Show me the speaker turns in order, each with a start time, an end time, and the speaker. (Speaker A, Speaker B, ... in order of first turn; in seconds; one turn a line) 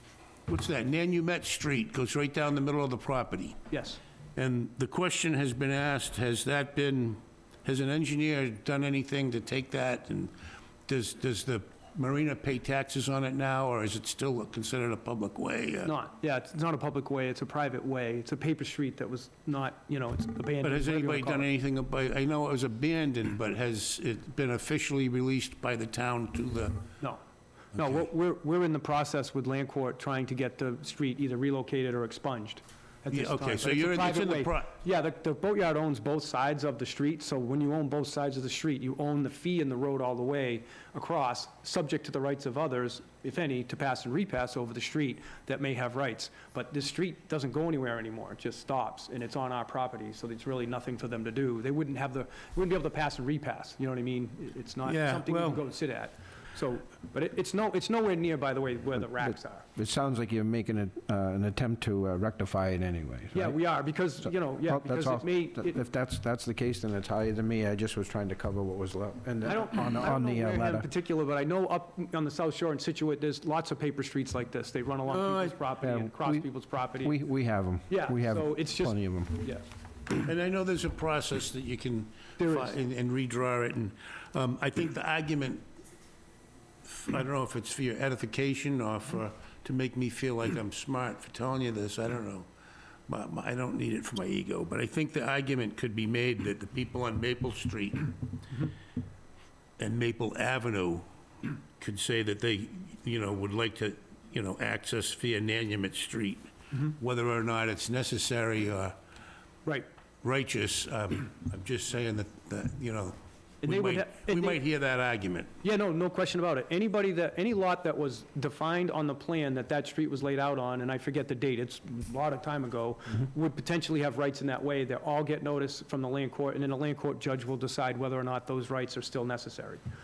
Speaker A: 0.5-3.6
Speaker B: 3.7-4.0
Speaker A: 4.3-10.3
Speaker A: 10.9-15.9
Speaker B: 15.8-21.4
Speaker A: 20.6-26.8
Speaker B: 27.7-59.6
Speaker A: 33.1-34.7
Speaker A: 54.8-55.6
Speaker C: 59.7-63.5
Speaker B: 63.3-65.8
Speaker C: 64.7-70.9
Speaker B: 69.5-77.1
Speaker A: 75.1-75.5
Speaker C: 75.8-79.5
Speaker B: 77.9-79.6
Speaker A: 80.2-85.6
Speaker B: 82.4-82.7
Speaker A: 86.9-92.5
Speaker A: 93.1-98.2
Speaker A: 99.8-109.0
Speaker A: 110.2-115.5
Speaker B: 113.6-114.6
Speaker B: 115.6-129.8